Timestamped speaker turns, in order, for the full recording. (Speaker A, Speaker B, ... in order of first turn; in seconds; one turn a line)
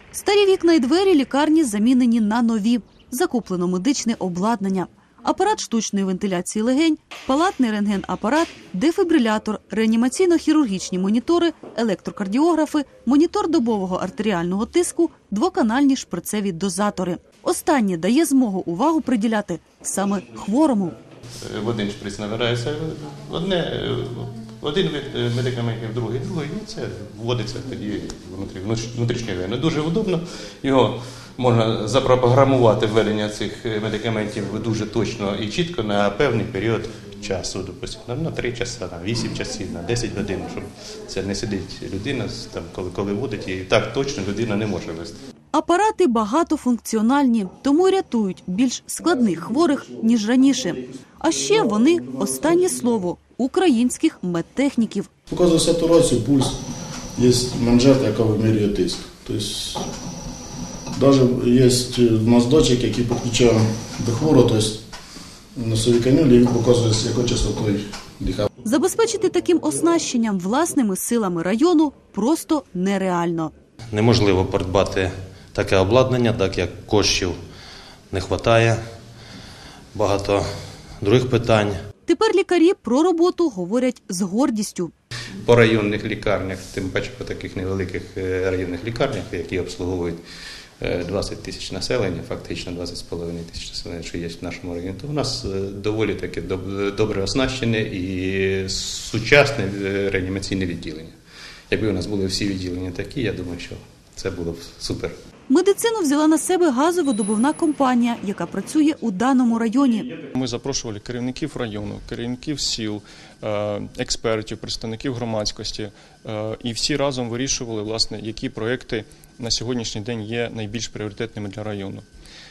Speaker A: 0.1-20.9
Speaker B: 21.4-45.2
Speaker A: 45.5-55.1
Speaker C: 55.3-56.6
Speaker C: 57.1-59.9
Speaker C: 60.9-64.8
Speaker C: 65.5-68.5
Speaker A: 68.6-73.5
Speaker D: 73.9-77.4
Speaker D: 78.1-78.8
Speaker D: 79.9-80.5
Speaker D: 81.0-81.8
Speaker A: 82.1-84.9
Speaker B: 85.4-90.2
Speaker B: 90.8-101.2
Speaker B: 101.7-105.1
Speaker A: 105.5-110.1
Speaker E: 110.3-122.0